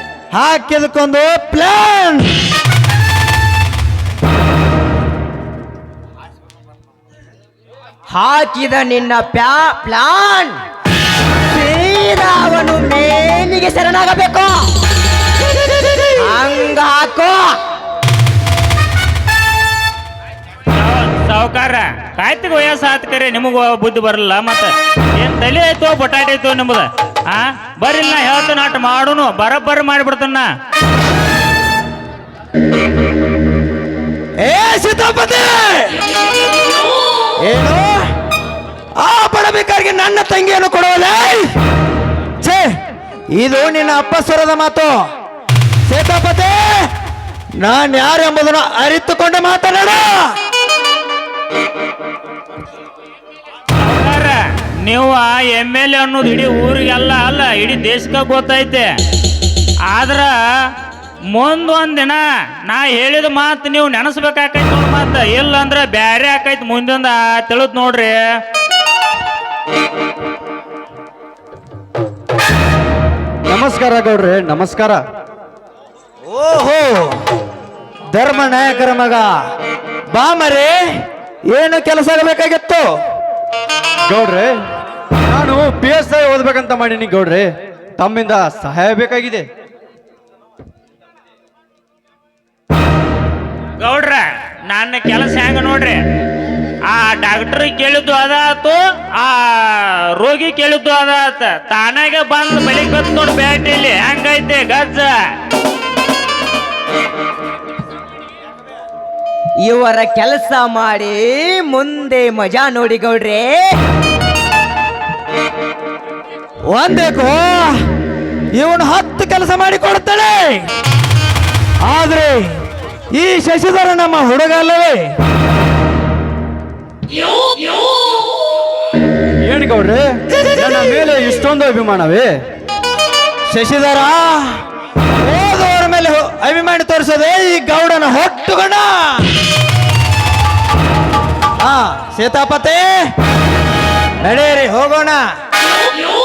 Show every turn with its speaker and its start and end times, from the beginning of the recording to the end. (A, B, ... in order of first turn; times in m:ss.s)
0:00.3-0:02.3 A
0:08.1-0:10.6 B
0:11.5-0:14.7 B
0:16.2-0:17.6 B
0:20.7-0:30.5 C
0:34.4-0:36.0 A
0:37.4-0:38.1 A
0:39.0-0:41.5 A
0:42.4-0:42.7 A
0:43.4-0:44.9 A
0:45.9-0:46.9 A
0:47.6-0:50.4 A
0:53.8-0:58.9 C
0:59.9-1:00.4 C
1:01.3-1:08.2 C
1:13.5-1:15.0 D
1:16.3-1:17.2 A
1:18.1-1:19.3 A
1:20.1-1:20.8 A
1:21.5-1:22.8 A
1:24.1-1:24.6 D
1:25.3-1:29.4 D
1:33.8-1:36.0 C
1:36.9-1:45.2 C
1:49.6-1:53.7 B
1:56.7-1:57.8 A
1:58.6-2:00.6 A
2:01.8-2:02.5 A
2:03.2-2:05.0 A
2:09.4-2:12.3 D
2:13.5-2:14.6 A
2:15.2-2:19.3 A
2:21.6-2:22.9 A
2:24.2-2:25.2 A